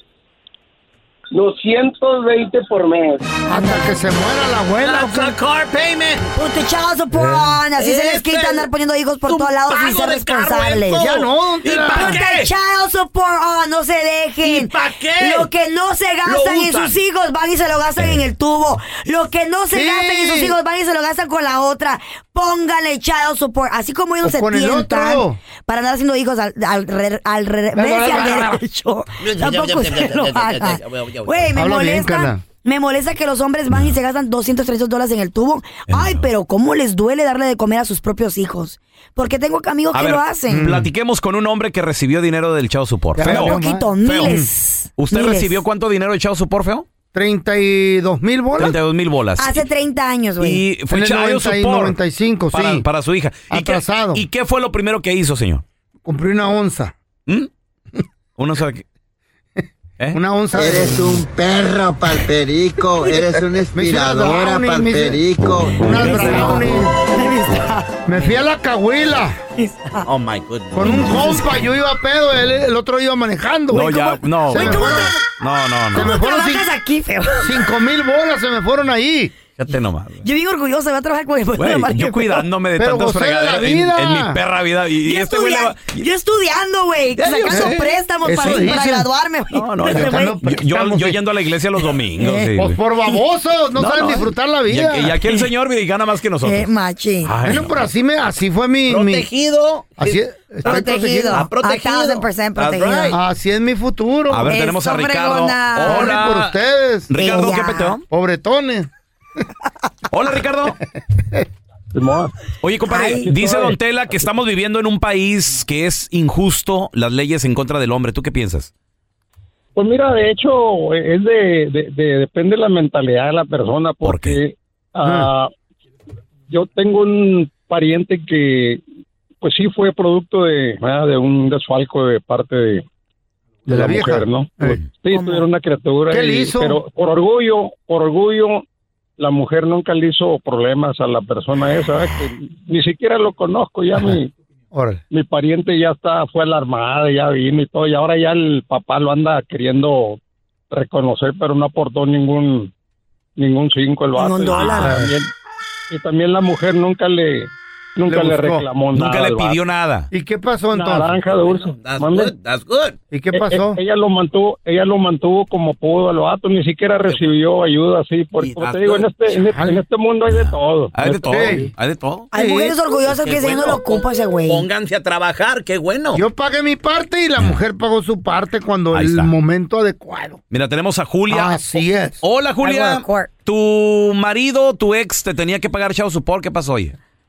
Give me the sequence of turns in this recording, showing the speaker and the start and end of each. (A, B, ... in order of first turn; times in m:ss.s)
0:01.3-0:03.3 A
0:03.5-0:05.3 B
0:03.5-0:03.8 C
0:04.8-0:06.2 D
0:06.3-0:11.1 C
0:07.1-0:07.5 B
0:07.8-0:08.7 D
0:09.2-0:12.5 D
0:11.0-0:12.2 B
0:11.8-0:40.7 C
0:14.4-0:15.5 D
0:16.2-0:17.0 D
0:19.7-0:20.6 B
0:24.2-0:25.4 B
0:27.7-0:28.6 B
0:29.2-0:31.5 D
0:31.5-0:32.4 B
0:35.9-0:36.2 E
0:39.9-0:44.4 E
0:40.5-0:40.9 B
0:43.2-0:44.5 B
0:43.2-0:45.6 C
0:45.0-0:46.8 E
0:47.1-0:48.8 B
0:48.6-0:49.6 E
0:49.4-0:50.6 C
0:50.4-0:52.0 E
0:50.9-0:52.8 B
0:52.5-0:55.6 E
0:53.5-0:54.2 B
0:56.0-0:56.9 B
0:58.4-0:58.8 E
1:00.1-1:01.1 B
1:00.5-1:06.0 F
1:03.7-1:06.9 B
1:05.9-1:08.3 C
1:06.1-1:06.5 E
1:08.0-1:09.4 B
1:09.6-1:10.1 C
1:10.0-1:11.3 D
1:10.7-1:15.2 B
1:10.8-1:11.5 C
1:13.7-1:16.1 E
1:14.5-1:15.2 C
1:15.9-1:16.7 B
1:15.9-1:17.5 C
1:17.4-1:19.3 B
1:19.6-1:20.2 E
1:20.2-1:22.4 C
1:21.6-1:26.0 E
1:22.8-1:24.4 B
1:25.0-1:30.4 C
1:27.2-1:27.8 E
1:27.4-1:29.1 B
1:29.5-1:32.8 E
1:29.8-1:31.2 B
1:32.4-1:35.2 B
1:33.8-1:36.7 E
1:36.4-1:37.4 C
1:37.2-1:37.9 E
1:37.4-1:39.2 B
1:38.9-1:43.2 D
1:40.0-1:41.5 B
1:40.6-1:43.2 C
1:43.1-1:44.5 B
1:44.3-1:46.6 E
1:44.5-1:46.2 C
1:45.8-1:47.2 B
1:47.1-1:48.0 E
1:47.1-1:48.0 C
1:48.1-1:48.9 B
1:50.1-1:50.8 E
1:51.9-1:52.3 A
1:52.6-1:58.7 E
1:52.9-1:53.3 C
1:53.2-1:53.8 A
1:59.8-2:05.4 A
2:04.0-2:04.4 E
2:05.0-2:05.3 B
2:06.5-2:08.8 A
2:09.4-2:12.8 A
2:13.7-2:14.8 B
2:13.7-2:18.5 A
2:15.1-2:15.4 C
2:16.1-2:16.8 B
2:19.2-2:24.3 A
2:24.7-2:25.0 B
2:25.1-2:30.1 A
2:30.7-2:32.6 A
2:33.4-2:35.3 A
2:34.1-2:35.1 C
2:35.9-2:37.4 A
2:38.0-2:39.6 A
2:38.1-2:38.7 B
2:38.9-2:40.1 E
2:40.1-2:41.2 B
2:40.7-2:42.3 A
2:41.3-2:43.0 D
2:43.1-2:43.8 B
2:43.3-2:51.2 A
2:48.4-2:49.2 D
2:49.5-2:49.8 B
2:50.3-2:52.2 E
2:51.2-2:51.6 D
2:51.3-2:51.7 B
2:52.3-2:52.8 B
2:52.3-2:54.7 C
2:53.0-2:56.2 D
2:56.1-3:00.4 B
2:58.9-2:59.3 E
3:00.5-3:07.0 E
3:01.3-3:02.2 B
3:02.6-3:03.3 C